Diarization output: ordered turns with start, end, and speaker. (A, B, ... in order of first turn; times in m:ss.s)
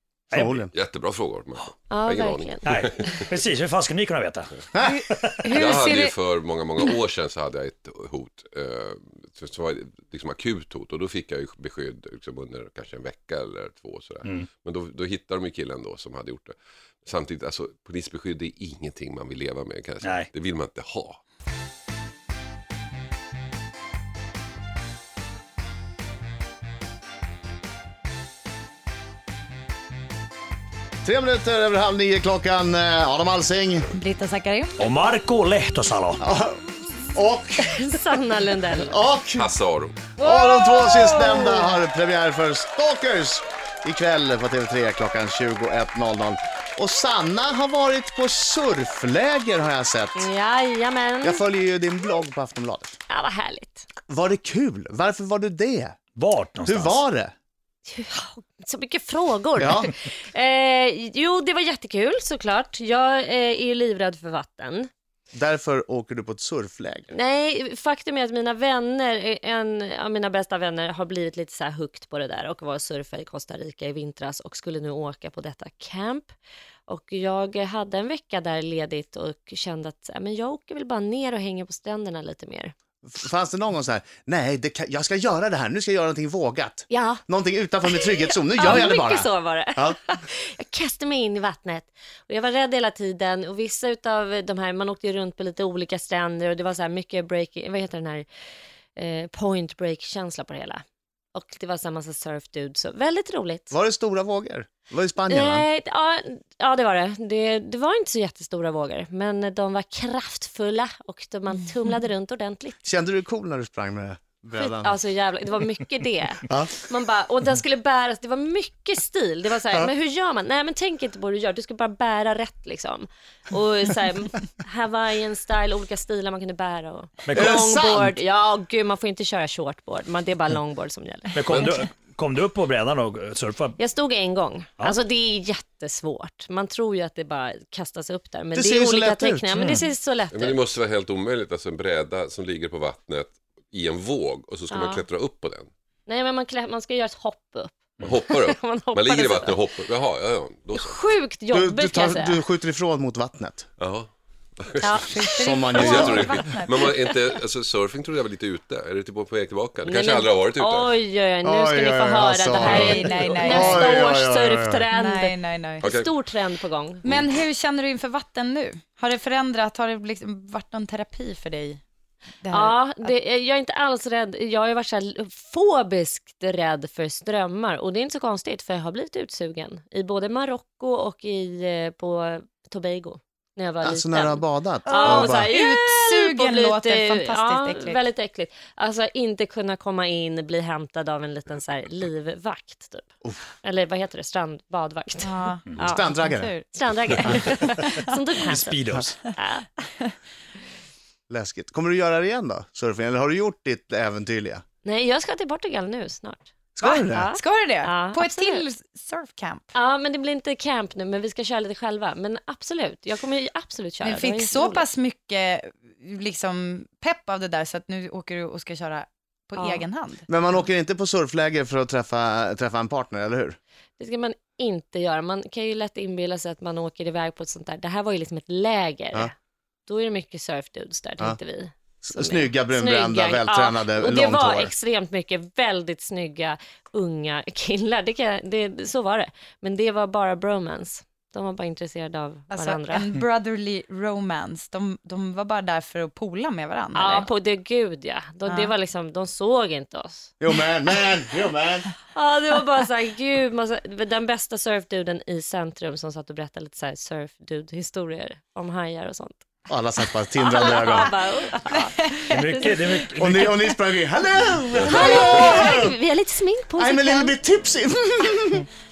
0:00.3-0:00.6 A
0:00.3-0:00.7 B
0:00.7-0:03.1 C
0:01.9-0:03.0 D
0:02.6-0:05.4 A
0:04.8-0:06.2 E
0:05.5-0:21.2 C
0:20.0-0:20.3 A
0:31.0-0:33.9 B
0:34.0-0:34.8 E
0:34.8-0:36.2 A
0:36.2-0:36.6 B
0:37.1-0:37.7 B
0:37.6-0:39.0 D
0:38.8-0:39.5 B
0:39.3-0:40.0 C
0:40.2-0:41.5 D
0:40.2-0:50.3 B
0:50.1-0:51.4 D
0:51.2-0:53.0 B
0:53.1-0:53.8 D
0:54.1-0:56.0 B
0:56.2-0:57.0 A
0:56.6-0:57.3 B
0:57.9-1:04.9 D
0:59.6-0:59.9 B
1:05.3-1:07.1 B
1:07.1-1:16.3 D
1:16.9-1:22.7 D
1:23.0-1:30.0 B
1:26.9-1:27.2 D
1:27.8-1:38.2 D
1:39.0-1:40.8 D
1:41.3-1:43.7 D
1:43.7-1:45.7 B
1:45.3-1:52.8 D
1:52.8-1:55.0 B
1:54.6-2:11.7 D
2:07.3-2:08.1 B
2:11.3-2:13.8 A
2:11.5-2:11.8 C
2:13.8-2:20.6 D
2:18.5-2:19.7 B
2:20.3-2:25.7 C
2:24.7-2:25.0 D
2:26.0-2:29.6 D
2:28.0-2:31.0 C
2:30.7-2:32.4 D
2:31.5-2:33.7 B
2:33.8-2:34.1 C
2:34.6-2:35.0 C
2:34.8-2:36.9 E
2:34.8-2:36.0 D
2:35.4-2:36.3 B
2:36.0-2:40.9 C
2:39.8-2:47.0 D
2:41.4-2:44.8 B
2:42.6-2:44.0 E
2:44.9-2:45.8 E
2:45.8-2:46.1 C
2:47.0-2:51.8 E
2:52.4-2:53.1 E
2:52.5-3:13.1 D
3:03.8-3:05.5 B
3:04.8-3:08.0 E
3:13.6-3:16.0 D
3:15.2-3:18.1 E
3:15.8-3:16.5 B
3:16.7-3:19.7 D
3:18.5-3:19.2 A
3:21.3-3:24.6 B
3:24.8-3:28.6 D
3:26.8-3:27.3 B
3:26.8-3:29.7 E
3:29.7-3:34.9 D
3:34.0-3:40.3 E
3:39.6-3:39.8 D
3:40.3-3:43.6 B
3:44.0-3:49.3 D
3:49.8-4:03.0 D
3:52.0-3:54.7 B
4:02.5-4:07.3 E
4:06.9-4:10.3 D
4:08.4-4:08.7 E
4:10.4-4:11.9 B
4:12.1-4:19.4 D
4:19.7-4:21.1 B
4:20.5-4:22.8 D
4:20.6-4:21.1 E
4:21.7-4:22.3 E
4:22.3-4:23.6 A
4:23.1-4:25.9 B
4:24.8-4:27.3 D
4:26.8-4:28.7 B